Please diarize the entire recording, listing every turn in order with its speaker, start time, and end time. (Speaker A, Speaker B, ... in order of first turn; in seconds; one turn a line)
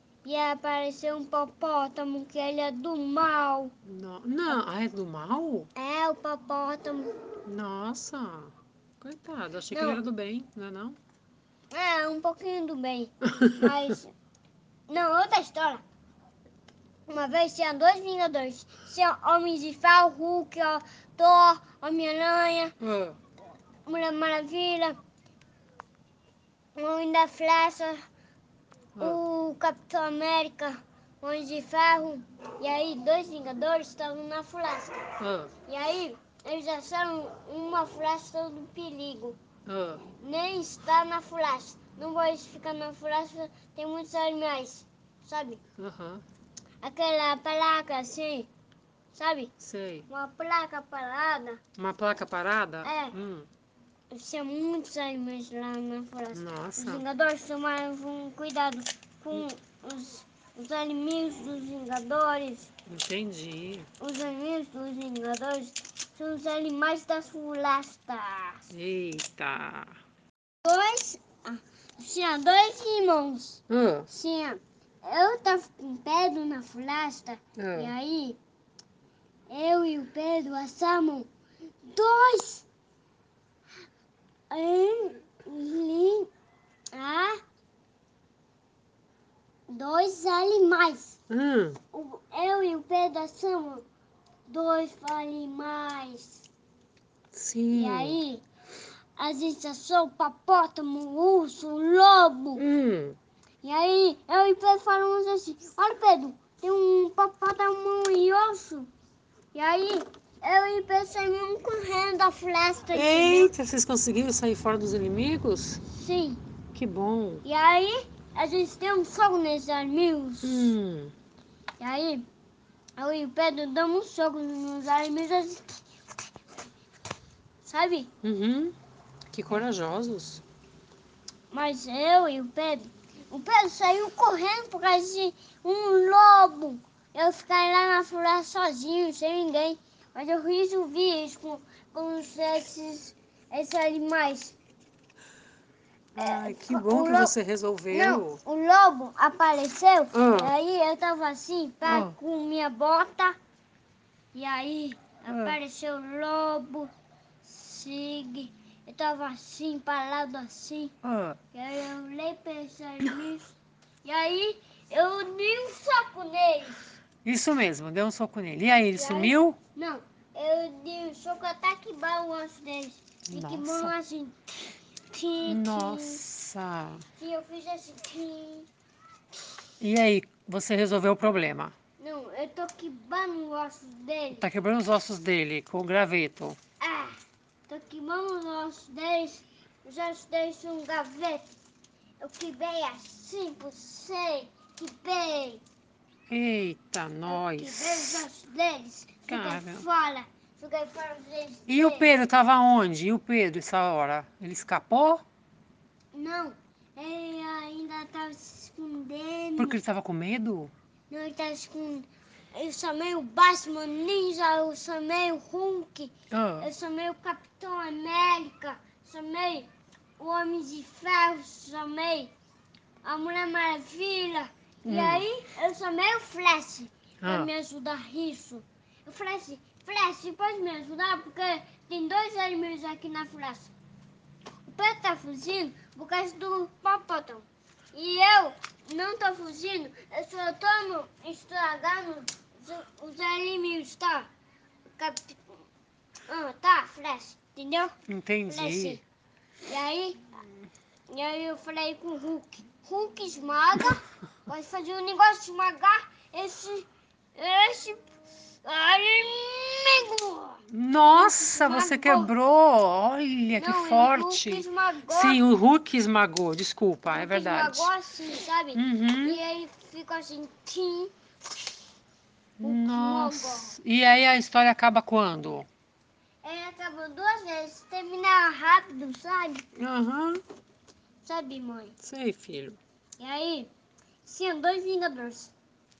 Speaker A: 0.2-3.7
Speaker B: 3.8-5.7
Speaker A: 5.8-7.1
Speaker B: 7.5-11.0
Speaker A: 9.7-10.0
Speaker A: 11.7-14.1
Speaker A: 14.9-15.8
Speaker A: 17.1-22.7
Speaker B: 22.8-23.2
Speaker A: 23.9-25.0
Speaker A: 26.7-28.0
Speaker B: 28.9-29.2
Speaker A: 29.0-35.0
Speaker B: 35.2-35.5
Speaker A: 35.6-39.4
Speaker B: 39.6-40.0
Speaker A: 40.2-45.6
Speaker B: 45.8-46.2
Speaker A: 46.8-48.5
Speaker A: 49.1-49.5
Speaker B: 49.6-50.1
Speaker A: 50.1-51.6
Speaker B: 51.8-53.5
Speaker A: 52.8-53.1
Speaker A: 54.1-62.7
Speaker B: 56.3-57.0
Speaker B: 62.9-63.9
Speaker A: 64.0-68.7
Speaker B: 68.7-70.0
Speaker A: 70.6-78.4
Speaker B: 73.7-74.1
Speaker B: 77.6-77.9
Speaker A: 79.5-81.3
Speaker A: 81.8-82.7
Speaker A: 84.5-86.3
Speaker A: 86.9-87.4
Speaker A: 89.7-91.2
Speaker B: 91.3-91.8
Speaker A: 91.9-93.8
Speaker A: 94.5-96.5
Speaker B: 97.3-98.2
Speaker A: 97.7-98.4
Speaker A: 99.2-102.7
Speaker B: 102.5-103.2
Speaker A: 103.6-108.9
Speaker A: 109.5-113.5
Speaker B: 112.9-115.8
Speaker A: 115.9-116.4
Speaker B: 116.7-117.4
Speaker A: 117.4-120.7
Speaker B: 120.4-121.1
Speaker A: 121.8-122.2
Speaker A: 123.0-125.8
Speaker A: 127.6-128.1
Speaker B: 128.2-128.8
Speaker B: 129.3-130.4
Speaker A: 131.5-144.6
Speaker B: 146.1-148.4
Speaker A: 146.2-147.3
Speaker A: 147.9-153.4
Speaker B: 150.1-150.5
Speaker B: 151.8-152.2
Speaker A: 154.3-156.9
Speaker B: 155.3-155.6
Speaker A: 157.4-160.9
Speaker B: 161.0-161.4
Speaker A: 161.5-167.0
Speaker B: 167.2-169.6
Speaker A: 168.9-176.2
Speaker B: 173.3-173.9
Speaker B: 175.4-177.0
Speaker A: 177.2-178.7
Speaker B: 179.8-181.7
Speaker A: 182.0-184.4
Speaker B: 184.3-186.6
Speaker A: 186.8-191.5
Speaker A: 192.2-195.6
Speaker B: 196.3-198.3
Speaker A: 197.3-202.1
Speaker B: 199.3-199.9
Speaker B: 201.7-205.2
Speaker A: 206.1-209.8
Speaker B: 209.6-210.7
Speaker A: 211.1-222.3
Speaker B: 216.3-216.7
Speaker A: 223.0-233.7
Speaker B: 224.8-225.2
Speaker B: 227.2-227.5
Speaker A: 234.7-244.3
Speaker A: 245.0-245.4
Speaker A: 246.3-247.9
Speaker B: 248.1-249.0
Speaker A: 248.5-249.0
Speaker A: 249.7-250.3
Speaker A: 251.1-258.0
Speaker A: 258.6-260.6
Speaker B: 260.7-267.9
Speaker A: 261.1-262.3
Speaker A: 263.6-265.4
Speaker A: 267.1-271.1
Speaker B: 268.7-269.4
Speaker B: 272.6-275.7
Speaker A: 272.6-273.8
Speaker A: 276.4-279.6
Speaker B: 279.8-280.4
Speaker A: 281.2-281.9
Speaker B: 282.0-282.8
Speaker A: 283.2-283.7
Speaker A: 284.2-285.5